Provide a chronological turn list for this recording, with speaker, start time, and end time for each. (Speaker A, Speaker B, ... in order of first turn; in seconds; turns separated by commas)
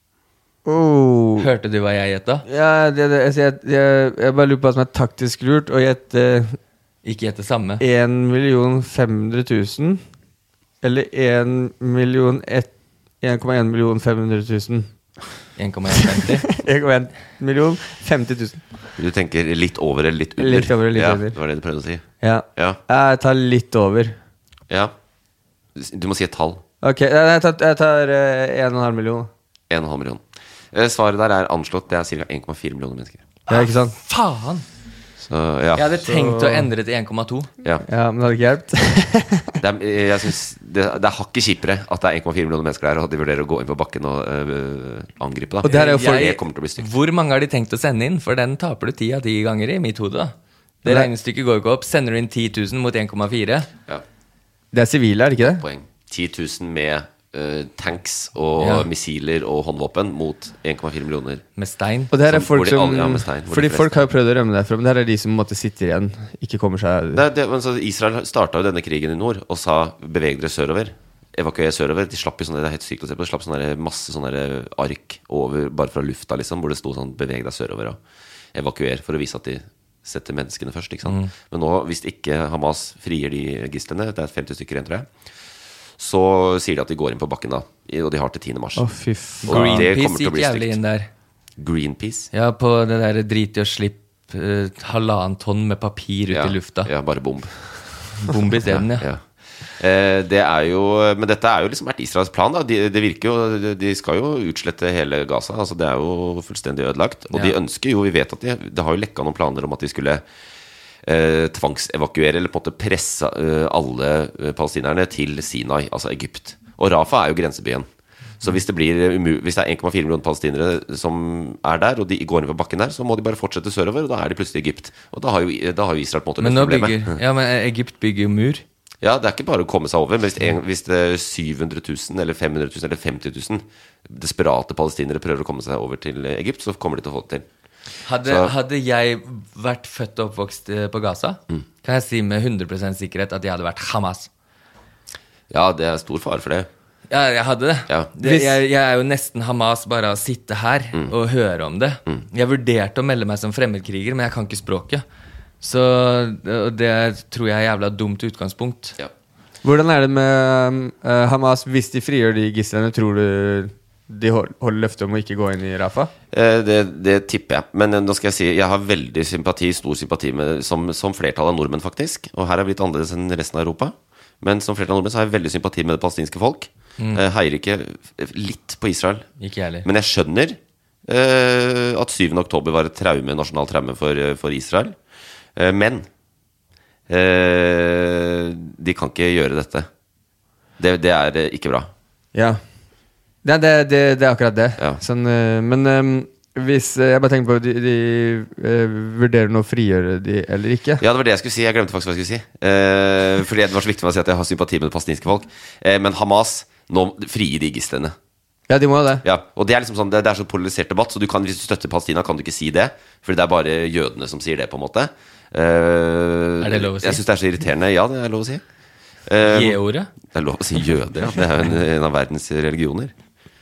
Speaker A: 0.6-1.5, Speaker B: 1.4-2.4, Speaker A: 2.5-6.6, Speaker B: 7.0-7.8, Speaker A: 7.8-10.0, Speaker A: 10.8-14.9, Speaker B: 15.6-16.4, Speaker A: 16.0-18.6, Speaker C: 19.0-22.0, Speaker A: 20.4-21.4, Speaker A: 22.2-24.2, Speaker C: 25.8-26.6, Speaker A: 26.8-29.3, Speaker C: 29.7-30.2, Speaker C: 30.7-33.2, Speaker B: 33.5-34.6, Speaker A: 33.5-34.0, Speaker C: 35.3-35.9, Speaker B: 35.7-37.5, Speaker A: 36.1-36.7, Speaker A: 37.8-39.5, Speaker C: 39.6-46.9, Speaker A: 45.6-46.4, Speaker B: 45.6-53.7, Speaker A: 54.7-55.6, Speaker C: 55.4-61.4, Speaker B: 58.6-58.9, Speaker B: 61.6-62.1, Speaker A: 62.1-67.2, Speaker C: 62.3-64.0, Speaker C: 67.1-78.0, Speaker C: 78.5-85.1, Speaker C: 86.0-88.9, Speaker A: 88.8-89.9, Speaker C: 89.4-90.8, Speaker B: 89.4-91.1, Speaker C: 91.6-92.3, Speaker B: 92.3-96.9, Speaker C: 96.3-110.2, Speaker B: 98.2-99.1, Speaker C: 111.0-117.9, Speaker C: 118.4-127.2, Speaker B: 126.4-128.6, Speaker C: 129.0-137.4, Speaker B: 138.1-144.3, Speaker C: 138.2-138.5, Speaker C: 145.5-146.7, Speaker B: 147.1-155.0, Speaker A: 148.2-148.6, Speaker B: 155.6-159.0, Speaker A: 159.6-166.1, Speaker C: 166.3-179.2, Speaker B: 179.4-179.9, Speaker C: 179.8-184.9, Speaker C: 185.6-186.1, Speaker C: 187.1-189.9, Speaker C: 190.8-191.9, Speaker A: 192.3-192.6, Speaker A: 193.4-201.0, Speaker C: 201.0-208.1, Speaker A: 208.7-209.2, Speaker C: 209.2-218.6, Speaker B: 216.6-217.2, Speaker C: 219.3-223.1, Speaker B: 219.4-220.1